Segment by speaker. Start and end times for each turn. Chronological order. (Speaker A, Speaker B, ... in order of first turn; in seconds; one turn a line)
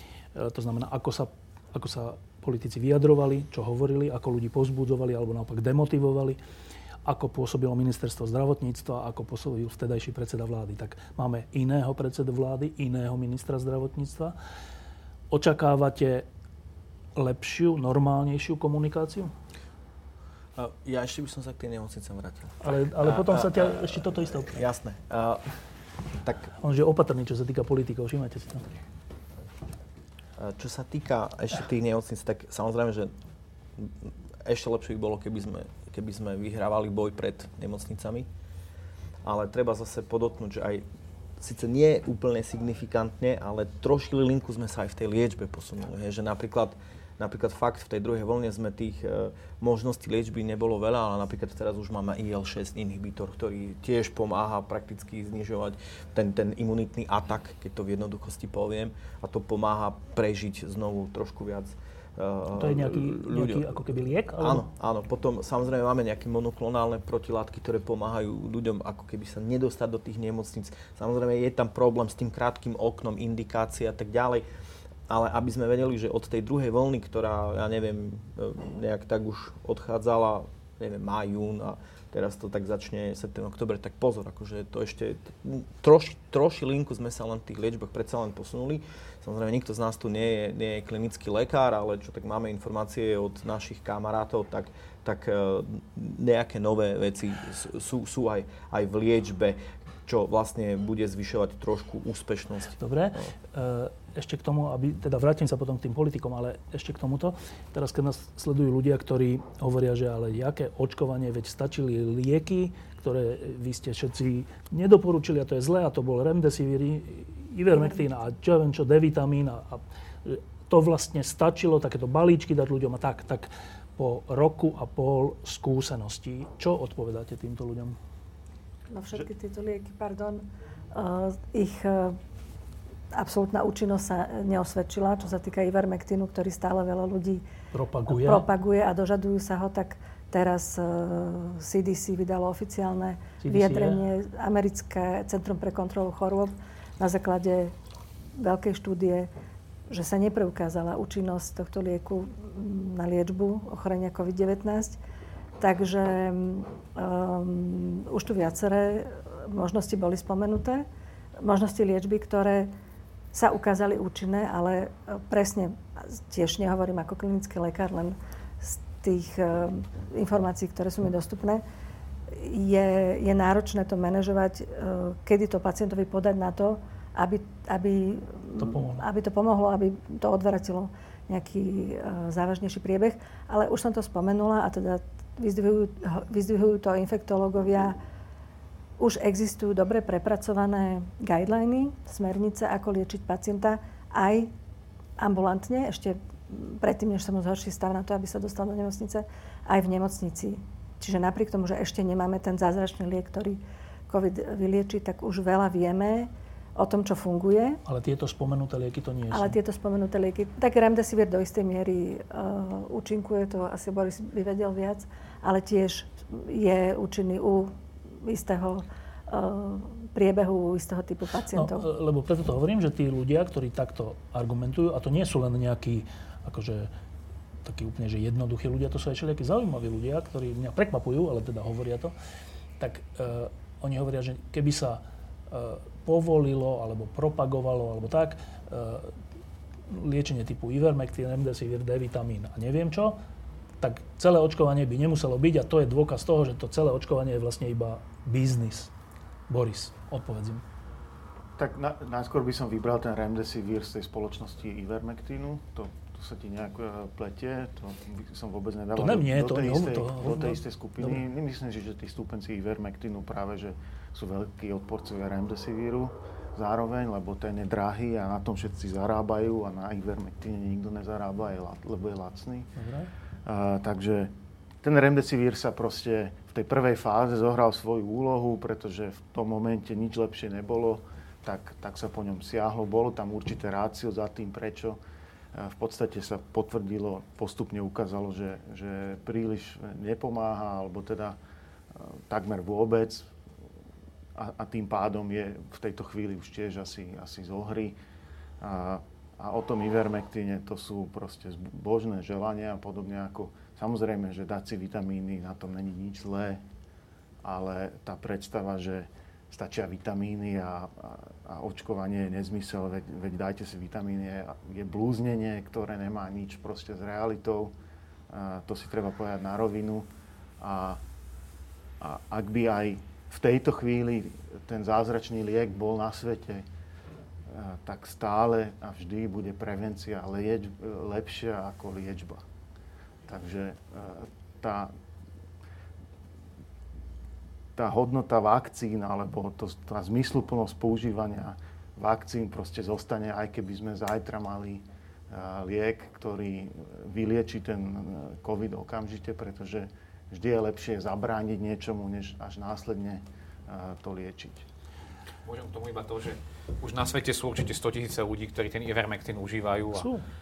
Speaker A: 0.3-6.4
Speaker A: 7.0-14.3
Speaker A: 15.3-16.3
Speaker A: 17.1-19.3
Speaker B: 20.6-25.5
Speaker A: 22.6-24.6
Speaker B: 26.2-26.5
Speaker A: 26.6-28.7
Speaker B: 30.4-33.1
Speaker B: 33.8-38.3
Speaker B: 39.2-40.8
Speaker B: 41.4-63.8
Speaker A: 62.5-64.7
Speaker B: 64.4-74.4
Speaker B: 75.1-103.3
Speaker A: 102.8-128.0
Speaker C: 128.9-132.2
Speaker C: 133.1-137.4
Speaker A: 137.7-138.5
Speaker C: 138.1-147.7
Speaker A: 143.4-144.1
Speaker C: 148.4-149.3
Speaker C: 149.9-155.0
Speaker C: 155.6-160.8
Speaker C: 161.4-162.7
Speaker C: 163.3-171.6
Speaker C: 172.3-188.0
Speaker A: 178.6-179.1
Speaker C: 189.0-194.5
Speaker C: 195.2-207.8
Speaker A: 207.8-209.6
Speaker C: 209.3-221.9
Speaker A: 221.5-226.9
Speaker A: 227.6-232.1
Speaker A: 232.8-239.2
Speaker A: 239.9-243.2
Speaker A: 243.8-248.9
Speaker A: 249.5-250.6
Speaker D: 251.6-272.7
Speaker A: 258.9-261.2
Speaker A: 272.8-273.1
Speaker D: 273.4-274.3
Speaker D: 274.8-285.0
Speaker D: 285.5-291.4
Speaker D: 291.9-293.3
Speaker D: 294.3-297.9
Speaker D: 298.6-306.6
Speaker D: 307.4-317.7
Speaker D: 318.3-320.1
Speaker D: 320.6-321.0
Speaker D: 322.0-326.6
Speaker D: 327.5-332.4
Speaker D: 333.3-334.9
Speaker D: 337.8-354.6
Speaker E: 355.4-360.1
Speaker A: 359.9-360.2